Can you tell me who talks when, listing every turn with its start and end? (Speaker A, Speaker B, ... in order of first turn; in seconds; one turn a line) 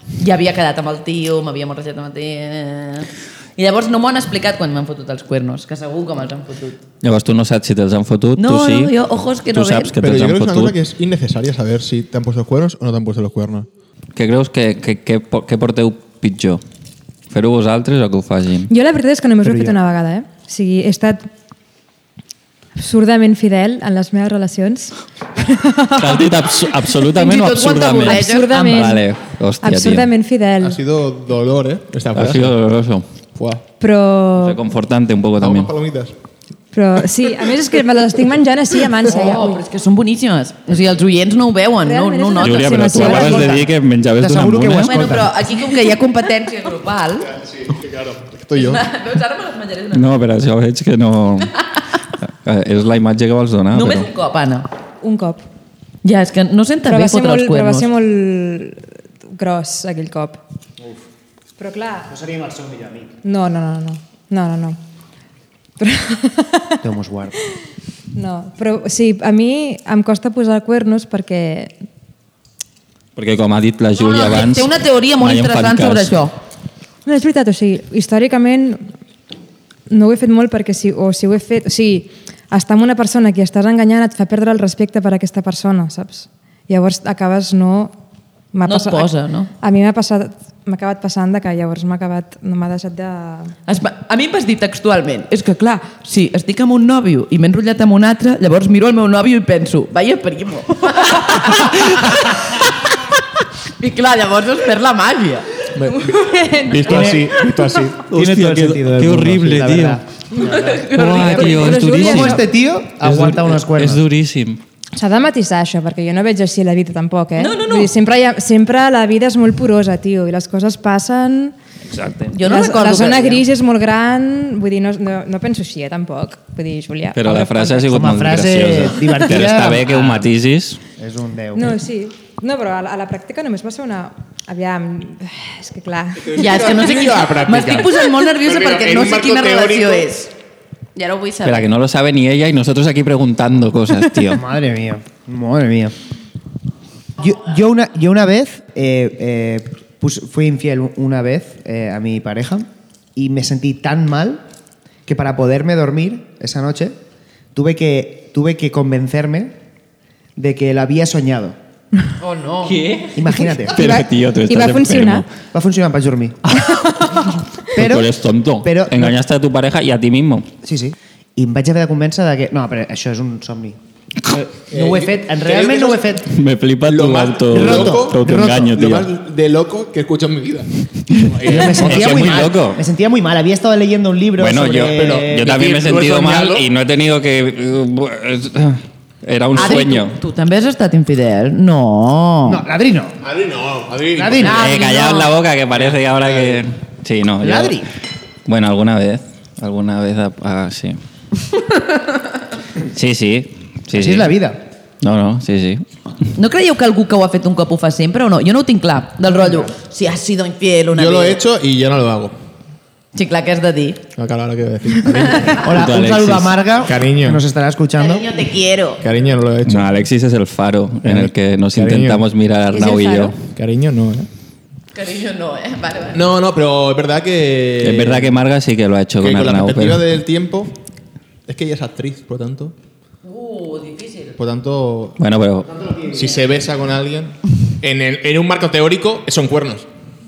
Speaker A: 0.2-6.8
Speaker B: 7.0-8.9
Speaker A: 8.4-9.9
Speaker B: 9.5-10.8
Speaker C: 9.9-13.7
Speaker B: 14.2-16.6
Speaker B: 17.3-18.7
Speaker D: 18.7-21.3
Speaker E: 19.4-19.8
Speaker D: 22.7-26.3
Speaker B: 25.9-30.1
Speaker A: 27.0-28.9
Speaker D: 28.0-29.0
Speaker D: 29.6-30.8
Speaker C: 30.6-32.5
Speaker B: 32.1-33.0
Speaker C: 33.4-33.6
Speaker D: 33.8-34.6
Speaker B: 34.3-35.7
Speaker C: 35.4-36.1
Speaker D: 36.7-39.6
Speaker A: 39.1-43.2
Speaker D: 41.8-43.6
Speaker B: 42.4-45.2
Speaker E: 43.0-45.4
Speaker A: 44.8-47.3
Speaker C: 47.5-48.8
Speaker A: 48.5-50.1
Speaker B: 49.9-51.5
Speaker B: 52.3-54.1
Speaker A: 53.7-54.7
Speaker D: 55.0-55.4
Speaker A: 56.0-57.9
Speaker D: 56.8-60.4
Speaker D: 61.6-62.1
Speaker E: 62.1-63.1
Speaker D: 63.2-64.8
Speaker D: 65.8-66.8
Speaker E: 66.8-67.3
Speaker D: 68.1-71.7
Speaker B: 73.2-76.2
Speaker A: 74.0-76.3
Speaker D: 77.0-78.8
Speaker D: 79.9-87.9
Speaker D: 88.5-93.5
Speaker A: 88.7-89.5
Speaker A: 93.7-103.2
Speaker A: 103.8-105.6
Speaker C: 105.7-108.0
Speaker D: 105.9-107.2
Speaker E: 106.8-107.3
Speaker E: 108.1-110.9
Speaker B: 108.1-110.0
Speaker A: 110.3-111.8
Speaker B: 110.9-112.5
Speaker D: 111.2-112.4
Speaker E: 111.7-114.0
Speaker B: 113.0-114.6
Speaker D: 114.9-121.5
Speaker A: 117.4-117.9
Speaker B: 121.9-122.3
Speaker A: 122.3-123.4
Speaker D: 122.4-127.9
Speaker B: 127.1-130.8
Speaker E: 127.9-130.3
Speaker E: 131.0-131.8
Speaker D: 131.5-136.4
Speaker C: 136.2-140.1
Speaker A: 136.3-140.3
Speaker A: 140.9-141.7
Speaker B: 141.4-144.4
Speaker E: 144.3-145.9
Speaker E: 147.2-154.4
Speaker E: 155.1-157.0
Speaker E: 157.5-159.6
Speaker E: 160.3-161.6
Speaker A: 162.2-163.0
Speaker B: 162.7-165.3
Speaker E: 163.1-163.9
Speaker D: 163.8-165.2
Speaker E: 165.5-166.4
Speaker B: 166.5-170.5
Speaker D: 166.7-167.2
Speaker E: 167.7-169.2
Speaker E: 170.6-173.8
Speaker E: 174.7-176.3
Speaker C: 174.7-176.1
Speaker B: 176.2-179.1
Speaker C: 176.8-182.5
Speaker E: 177.5-178.6
Speaker E: 181.3-185.6
Speaker B: 181.5-182.8
Speaker B: 184.4-190.2
Speaker C: 184.9-186.7
Speaker A: 189.5-192.6
Speaker E: 192.4-193.2
Speaker C: 193.2-194.6
Speaker E: 194.1-194.6
Speaker A: 194.4-195.3
Speaker B: 194.5-197.8
Speaker C: 195.8-196.6
Speaker E: 197.4-197.9
Speaker B: 198.4-201.0
Speaker A: 201.6-202.0
Speaker B: 202.9-204.3
Speaker E: 203.9-204.6
Speaker B: 205.0-205.8
Speaker A: 206.3-211.4
Speaker C: 210.9-212.3
Speaker A: 213.1-214.0
Speaker C: 214.1-215.8
Speaker A: 215.1-215.6
Speaker E: 215.6-218.3
Speaker B: 215.7-216.6
Speaker C: 216.8-217.4
Speaker A: 218.0-219.0
Speaker C: 219.0-219.9
Speaker B: 219.6-223.3
Speaker C: 221.0-222.2
Speaker D: 222.7-223.3
Speaker C: 223.4-224.3
Speaker A: 224.9-226.2
Speaker C: 226.1-228.4
Speaker B: 227.8-230.0
Speaker C: 229.2-230.8
Speaker C: 231.5-232.7
Speaker A: 233.2-234.4
Speaker C: 234.4-235.2
Speaker B: 235.2-235.7
Speaker C: 236.0-239.8